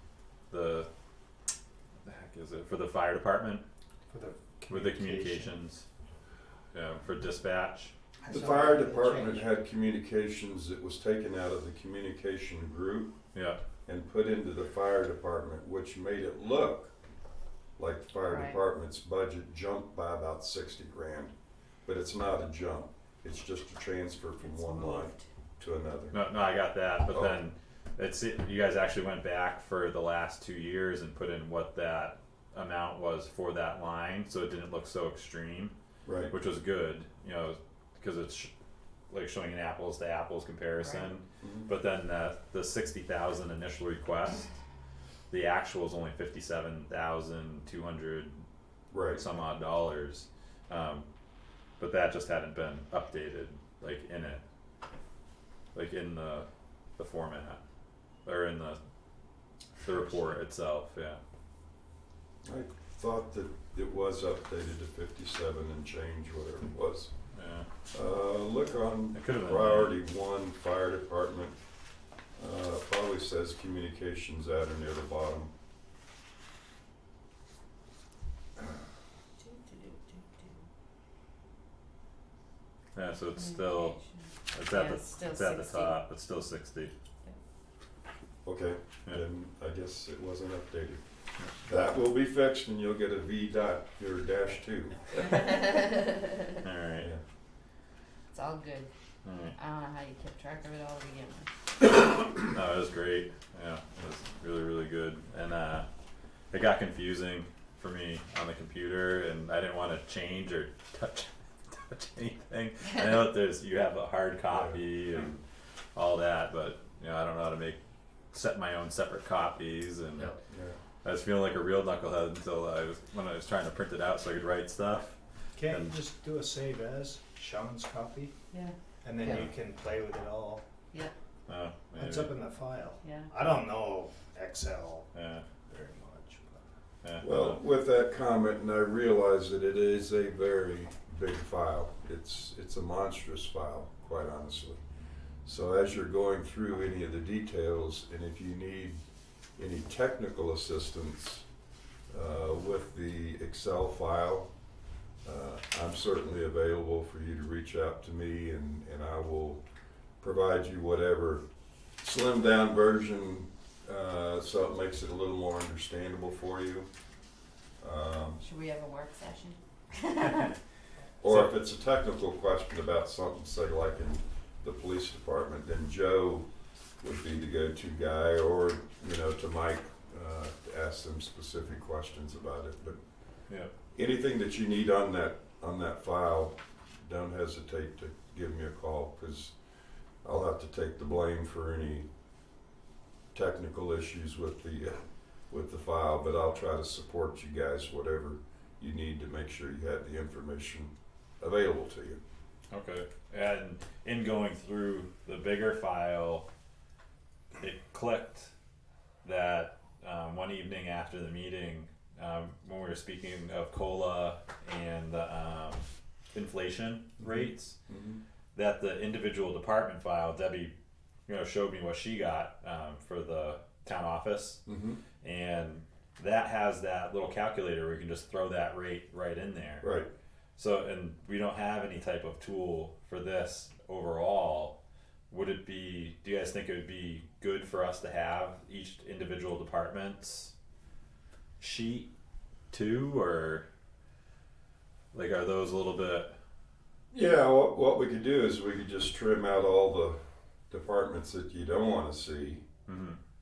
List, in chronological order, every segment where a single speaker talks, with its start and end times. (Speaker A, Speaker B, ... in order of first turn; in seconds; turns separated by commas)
Speaker A: 0.5-0.9, Speaker A: 2.0-3.6, Speaker B: 4.1-5.5, Speaker A: 4.7-5.8, Speaker A: 6.7-7.9, Speaker B: 8.2-9.5, Speaker C: 8.3-13.1, Speaker A: 13.3-13.6, Speaker C: 13.8-16.9, Speaker C: 17.8-21.3, Speaker D: 18.2-18.6, Speaker C: 21.9-26.2, Speaker D: 24.5-25.2, Speaker A: 26.1-35.7, Speaker C: 27.1-27.4, Speaker C: 36.0-36.3, Speaker A: 36.3-38.5, Speaker A: 39.1-44.5, Speaker D: 40.8-41.1, Speaker C: 41.4-41.7, Speaker A: 45.3-48.4, Speaker C: 48.9-49.2, Speaker A: 49.1-51.1, Speaker A: 51.8-54.4, Speaker A: 55.7-57.6, Speaker A: 58.2-58.8, Speaker A: 59.8-61.2, Speaker C: 62.4-67.1, Speaker A: 67.3-67.7, Speaker C: 67.9-71.6, Speaker A: 69.1-70.0, Speaker C: 72.4-75.5, Speaker D: 79.4-80.6, Speaker A: 82.9-84.0, Speaker D: 83.4-86.0, Speaker A: 84.5-86.9, Speaker C: 88.4-91.0, Speaker C: 91.6-95.5, Speaker D: 95.5-96.2, Speaker A: 96.6-97.1, Speaker D: 98.3-98.9, Speaker A: 99.2-99.5, Speaker D: 99.5-101.5, Speaker A: 102.4-105.9, Speaker A: 106.5-115.4, Speaker C: 114.5-114.8, Speaker A: 115.9-117.8, Speaker A: 118.3-120.3, Speaker C: 120.5-120.8, Speaker A: 121.0-126.0, Speaker B: 125.5-128.3, Speaker D: 128.5-129.5, Speaker B: 129.0-130.6, Speaker A: 131.5-132.3, Speaker B: 131.9-135.1, Speaker D: 133.0-133.3, Speaker A: 135.1-135.4, Speaker B: 135.7-136.6, Speaker A: 137.0-137.6, Speaker C: 137.2-144.8, Speaker C: 145.4-149.0, Speaker C: 149.6-151.4, Speaker C: 152.1-154.5, Speaker C: 155.2-159.6, Speaker C: 160.2-161.4, Speaker C: 162.0-166.9, Speaker C: 167.8-168.4, Speaker D: 168.4-170.5, Speaker C: 171.2-176.4, Speaker C: 177.0-183.0, Speaker C: 183.9-189.5, Speaker C: 190.2-192.1, Speaker C: 193.3-202.2, Speaker A: 202.7-206.4, Speaker A: 207.6-208.5, Speaker A: 209.2-217.8, Speaker C: 217.2-218.2, Speaker A: 218.5-220.7, Speaker A: 221.3-224.6, Speaker C: 224.7-225.0, Speaker A: 225.2-229.9, Speaker C: 229.8-230.1, Speaker A: 230.6-234.8, Speaker A: 235.3-240.5, Speaker A: 241.6-242.1, Speaker A: 242.7-243.7, Speaker A: 245.1-246.3, Speaker C: 247.1-250.2, Speaker C: 250.7-252.6, Speaker A: 252.8-253.2